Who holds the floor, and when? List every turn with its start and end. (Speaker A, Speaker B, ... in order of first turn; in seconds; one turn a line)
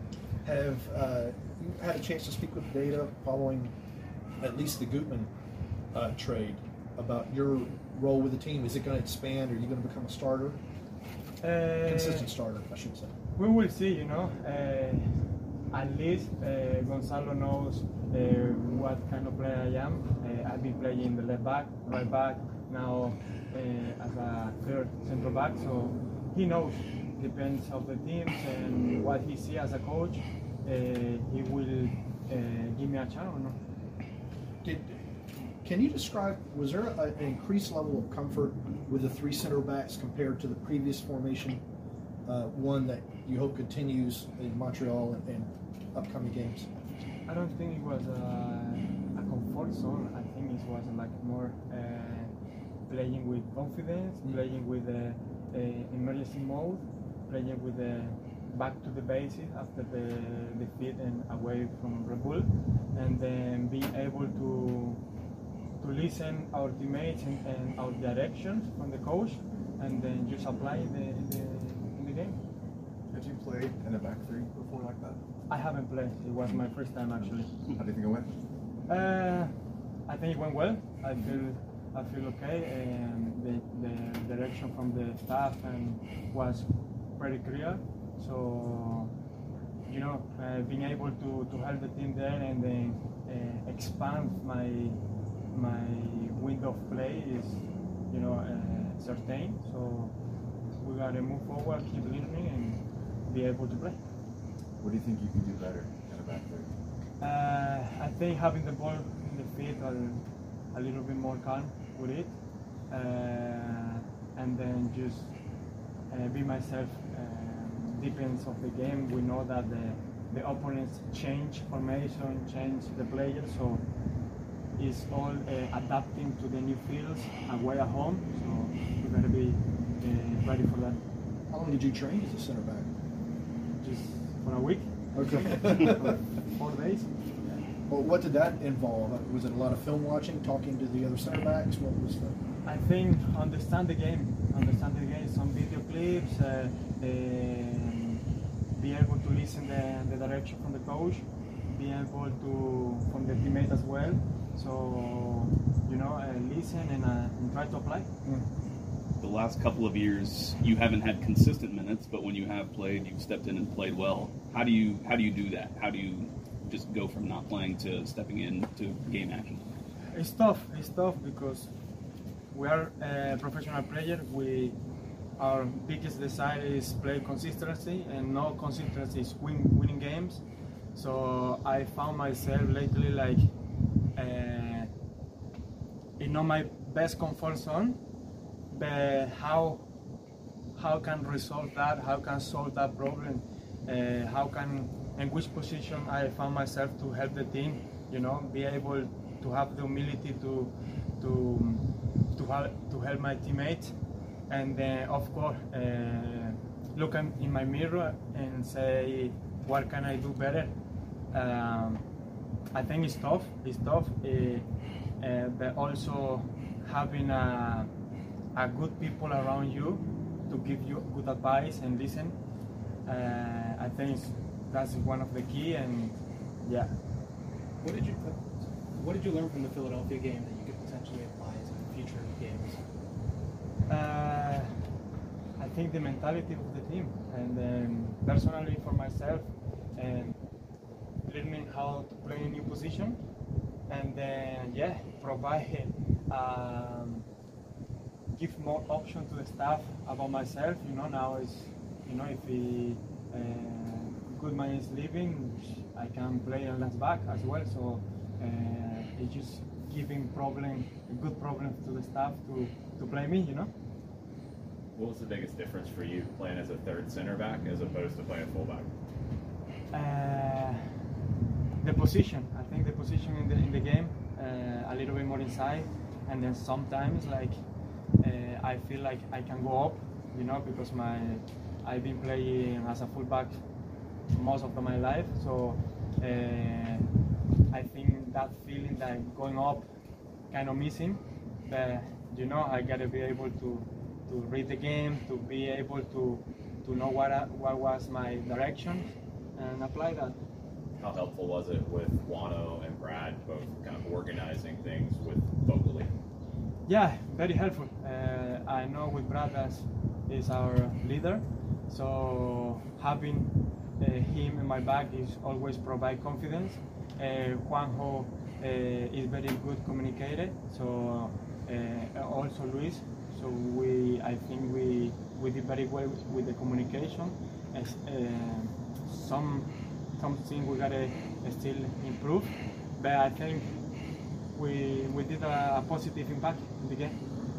Speaker A: 0.4-3.7
Speaker A: 4.4-5.3
Speaker A: 5.9-10.6
Speaker B: 11.4-12.3
Speaker A: 11.8-13.1
Speaker B: 13.3-33.6
Speaker A: 34.6-35.1
Speaker A: 35.6-41.6
Speaker A: 42.3-46.9
Speaker B: 47.3-52.3
Speaker B: 52.9-65.0
Speaker B: 65.8-72.4
Speaker C: 73.1-75.2
Speaker B: 75.5-77.5
Speaker C: 77.0-78.3
Speaker B: 78.9-79.5
Speaker B: 80.1-89.1
Speaker B: 89.9-100.2
Speaker B: 100.8-104.0
Speaker C: 104.8-106.7
Speaker B: 107.2-131.0
Speaker A: 131.5-132.9
Speaker B: 133.8-137.1
Speaker A: 135.1-136.2
Speaker A: 137.9-142.4
Speaker B: 142.7-158.2
Speaker D: 159.2-169.7
Speaker B: 170.1-171.7
Speaker B: 172.5-174.8
Speaker B: 175.4-183.6
Speaker B: 184.2-184.9
Speaker B: 186.2-188.0
Speaker B: 188.7-189.9
Speaker B: 190.8-204.0
Speaker B: 204.5-210.8
Speaker B: 211.3-212.1
Speaker B: 212.7-217.9
Speaker B: 218.5-227.0
Speaker E: 227.8-233.1
Speaker B: 233.9-234.9
Speaker B: 235.6-240.4
Speaker B: 241.2-243.2
Speaker B: 243.9-247.3
Speaker B: 248.3-263.7
Speaker F: 264.9-268.9
Speaker B: 269.9-271.0
Speaker B: 271.8-277.6
Speaker B: 278.2-283.6
Speaker B: 284.3-287.1
Speaker B: 287.7-289.9
Speaker B: 290.5-299.1
Speaker B: 299.6-300.4
Speaker F: 301.0-306.1
Speaker B: 306.9-333.8
Speaker B: 334.5-337.2